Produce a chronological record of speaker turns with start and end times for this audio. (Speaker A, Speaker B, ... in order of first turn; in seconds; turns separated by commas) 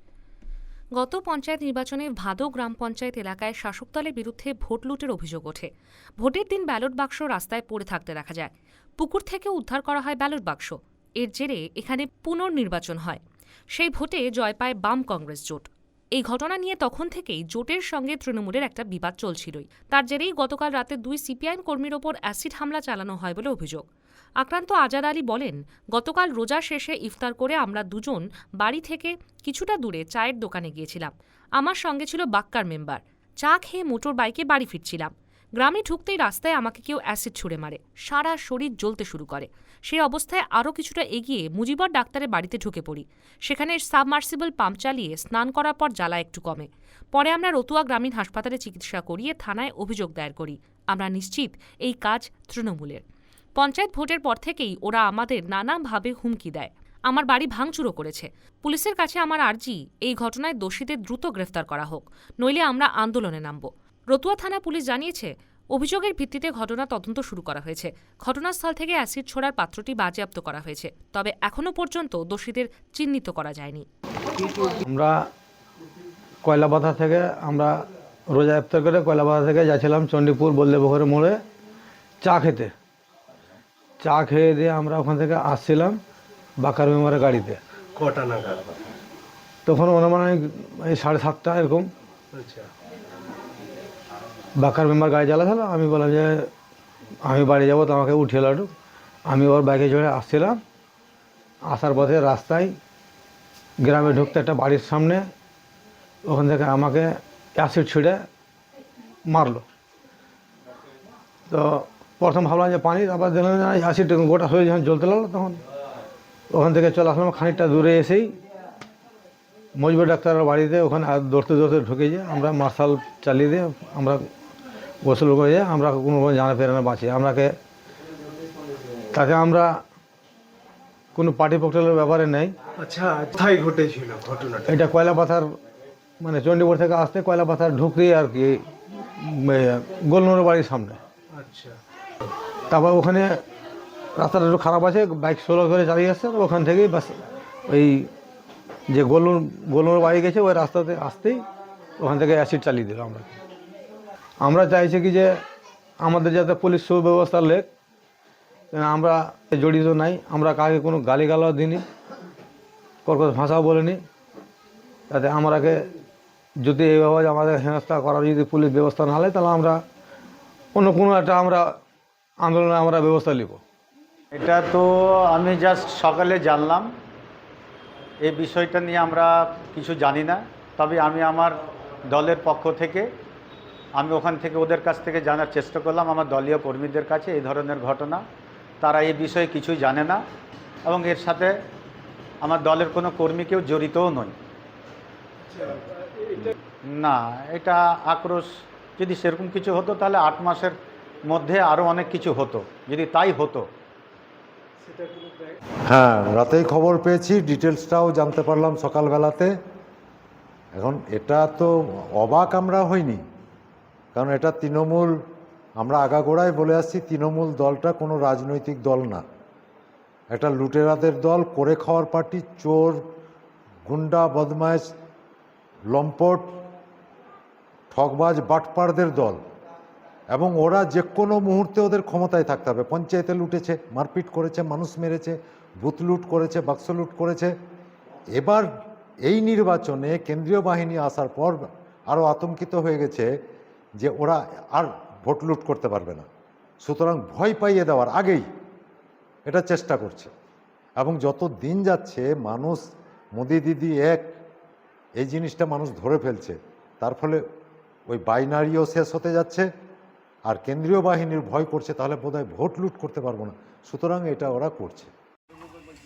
Speaker A: 0.9-13.2, Speaker A: 13.7-23.8, Speaker A: 24.4-53.0, Speaker A: 53.6-73.8, Speaker B: 74.6-75.3, Speaker B: 76.4-81.4, Speaker B: 82.2-82.7, Speaker B: 84.0-86.0, Speaker B: 86.6-87.6, Speaker C: 88.0-88.7, Speaker B: 89.7-91.9, Speaker C: 92.3-92.7, Speaker B: 94.5-96.5, Speaker B: 97.2-98.7, Speaker B: 99.2-100.6, Speaker B: 101.6-102.8, Speaker B: 103.8-105.3, Speaker B: 106.2-108.2, Speaker B: 109.2-109.6, Speaker B: 111.5-115.6, Speaker B: 116.5-118.3, Speaker B: 119.7-124.2, Speaker B: 125.0-127.6, Speaker B: 129.1-129.8, Speaker B: 131.1-132.5, Speaker C: 132.8-134.8, Speaker B: 134.7-135.5, Speaker B: 136.2-141.0, Speaker C: 141.3-141.8, Speaker B: 142.7-143.4, Speaker B: 144.2-148.1, Speaker B: 148.9-151.4, Speaker B: 152.0-153.3, Speaker B: 154.4-155.4, Speaker B: 156.0-157.7, Speaker B: 158.7-161.8, Speaker B: 163.0-164.0, Speaker B: 165.1-165.8, Speaker B: 166.6-169.8, Speaker B: 170.7-171.8, Speaker B: 172.4-173.6, Speaker D: 174.3-176.9, Speaker D: 178.2-183.1, Speaker D: 183.9-188.2, Speaker D: 188.8-190.2, Speaker D: 190.8-191.6, Speaker D: 192.4-194.3, Speaker C: 195.5-195.8, Speaker D: 196.8-203.7, Speaker E: 205.9-209.5, Speaker E: 210.7-213.2, Speaker E: 214.1-215.2, Speaker E: 215.8-219.2, Speaker E: 220.3-223.0, Speaker E: 223.8-224.9, Speaker E: 225.9-226.6, Speaker E: 227.9-229.4, Speaker E: 230.3-237.5, Speaker E: 238.3-238.7, Speaker E: 239.2-243.3, Speaker E: 244.0-246.2, Speaker E: 246.8-248.4, Speaker E: 249.4-250.3, Speaker E: 251.0-254.3, Speaker E: 255.2-257.4, Speaker E: 258.1-259.7, Speaker E: 260.5-265.1